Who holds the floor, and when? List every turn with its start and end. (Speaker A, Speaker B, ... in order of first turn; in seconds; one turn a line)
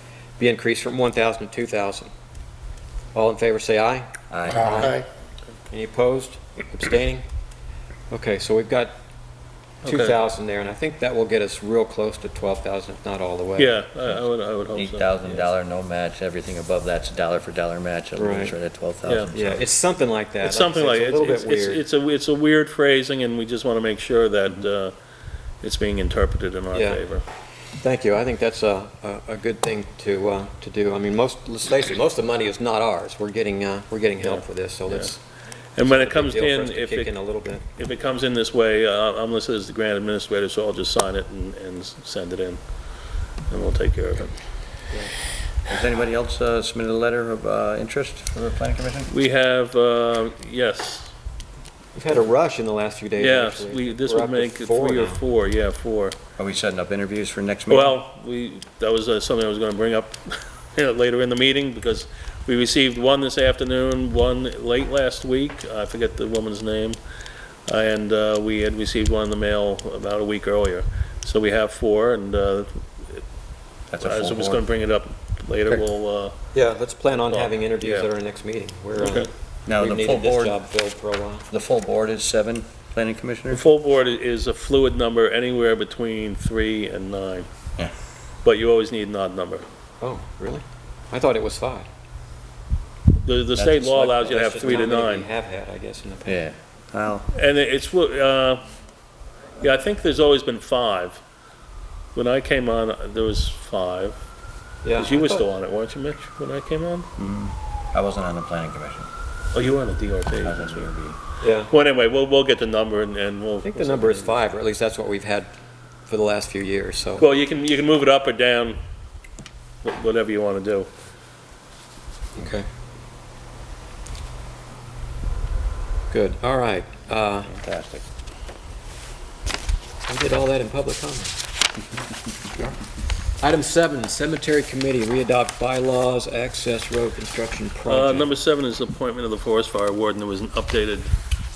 Speaker A: 0.4-2.1
Speaker A: 3.1-5.0
Speaker B: 4.3-4.9
Speaker A: 5.7-7.2
Speaker A: 8.1-8.9
Speaker C: 9.8-10.2
Speaker A: 9.8-13.8
Speaker C: 13.6-15.5
Speaker B: 14.7-19.6
Speaker A: 18.2-18.5
Speaker A: 19.3-21.8
Speaker C: 20.4-24.9
Speaker C: 25.6-27.2
Speaker A: 26.7-27.0
Speaker A: 27.8-35.2
Speaker C: 34.2-35.1
Speaker C: 35.8-37.2
Speaker A: 35.8-37.6
Speaker C: 37.8-42.6
Speaker C: 43.5-44.3
Speaker B: 45.7-49.1
Speaker C: 49.1-51.1
Speaker A: 51.9-55.2
Speaker C: 53.2-56.2
Speaker B: 56.4-58.0
Speaker C: 57.7-67.0
Speaker C: 67.7-73.2
Speaker B: 73.9-74.6
Speaker C: 74.0-76.3
Speaker A: 76.5-81.5
Speaker C: 77.3-78.1
Speaker C: 79.0-79.3
Speaker B: 79.7-80.6
Speaker B: 81.5-83.7
Speaker C: 83.5-87.5
Speaker C: 88.4-89.7
Speaker A: 90.0-91.9
Speaker C: 93.2-95.3
Speaker B: 93.5-94.5
Speaker A: 94.2-96.4
Speaker B: 96.2-97.3
Speaker C: 97.3-98.6
Speaker C: 99.6-101.2
Speaker C: 102.1-104.2
Speaker A: 104.8-105.4
Speaker C: 105.0-107.1
Speaker B: 107.2-109.1
Speaker C: 109.5-110.9
Speaker B: 110.4-111.2
Speaker A: 111.4-111.7
Speaker C: 111.7-114.4
Speaker A: 113.6-115.5
Speaker A: 116.1-117.2
Speaker C: 117.2-118.8
Speaker C: 119.8-120.9
Speaker A: 122.3-122.7
Speaker A: 126.1-127.5
Speaker B: 127.5-128.0
Speaker A: 130.1-131.4
Speaker A: 133.4-138.3
Speaker C: 137.9-141.1